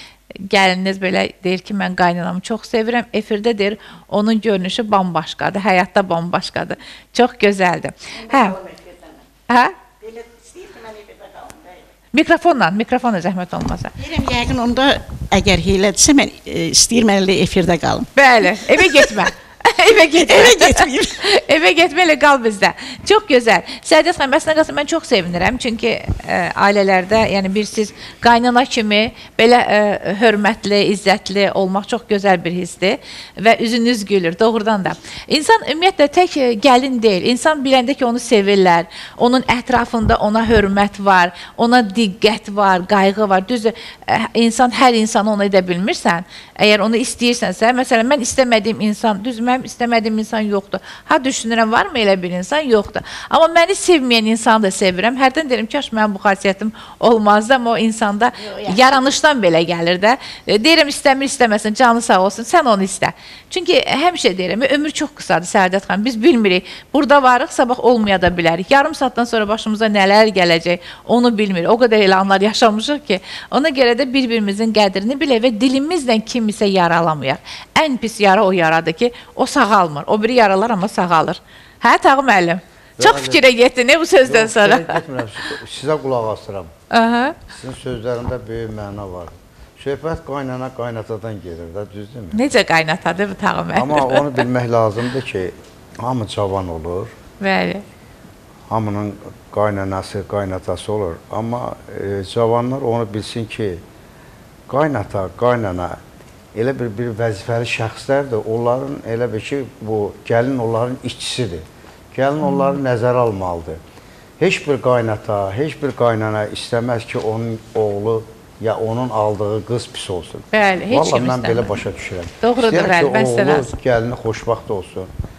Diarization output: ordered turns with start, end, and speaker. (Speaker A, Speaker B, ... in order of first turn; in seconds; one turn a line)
Speaker A: 0.5-8.6
Speaker B: 8.2-9.2
Speaker A: 9.5-9.7
Speaker B: 10.0-11.8
Speaker A: 12.1-13.9
Speaker B: 14.0-19.1
Speaker A: 18.1-85.0
Speaker B: 20.1-21.2
Speaker B: 58.3-59.1
Speaker C: 83.0-83.4
Speaker C: 84.2-86.7
Speaker A: 86.9-87.3
Speaker C: 87.5-92.4
Speaker A: 92.3-94.4
Speaker C: 93.7-97.1
Speaker A: 97.4-97.8
Speaker C: 98.7-103.8
Speaker C: 104.7-106.0
Speaker C: 106.5-113.8
Speaker A: 112.4-112.8
Speaker C: 114.4-125.1
Speaker A: 120.5-121.7
Speaker A: 122.4-123.7